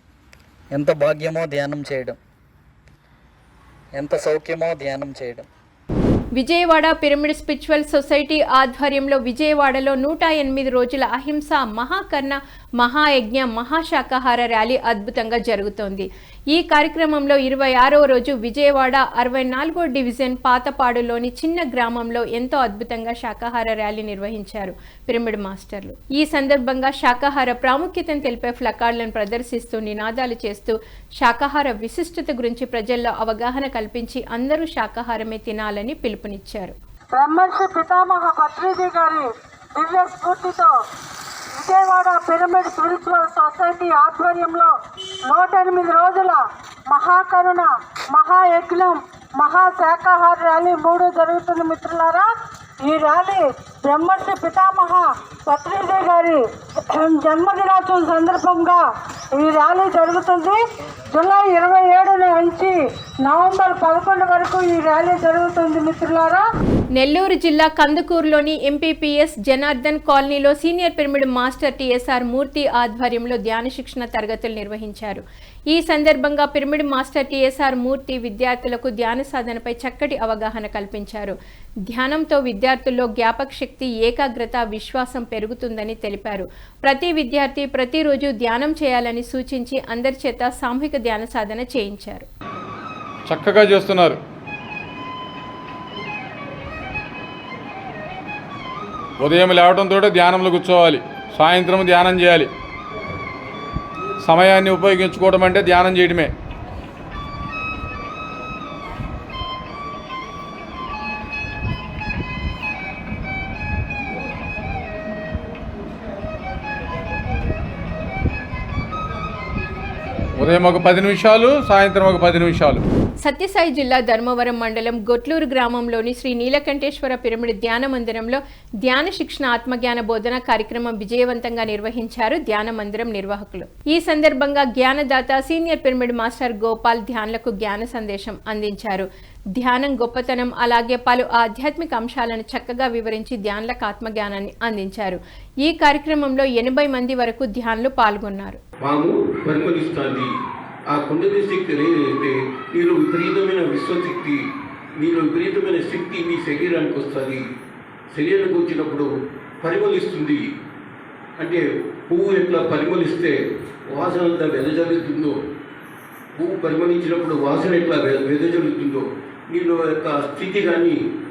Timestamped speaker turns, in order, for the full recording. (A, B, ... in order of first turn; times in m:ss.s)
0:00.7-0:02.2 A
0:03.9-0:05.4 A
0:06.3-0:36.7 B
0:37.1-0:40.7 C
0:41.6-0:44.7 C
0:45.3-1:00.6 C
1:01.1-1:06.4 C
1:06.9-1:21.4 B
1:21.9-1:32.3 B
1:33.3-1:34.2 D
1:39.2-1:42.5 D
1:44.2-1:46.3 D
2:00.4-2:02.8 D
2:03.2-2:28.6 B
2:28.8-2:30.3 E
2:30.9-2:34.4 E
2:35.0-2:37.4 E
2:38.1-2:39.1 E
2:39.6-2:40.4 E
2:41.4-2:45.4 E
2:46.4-2:51.0 E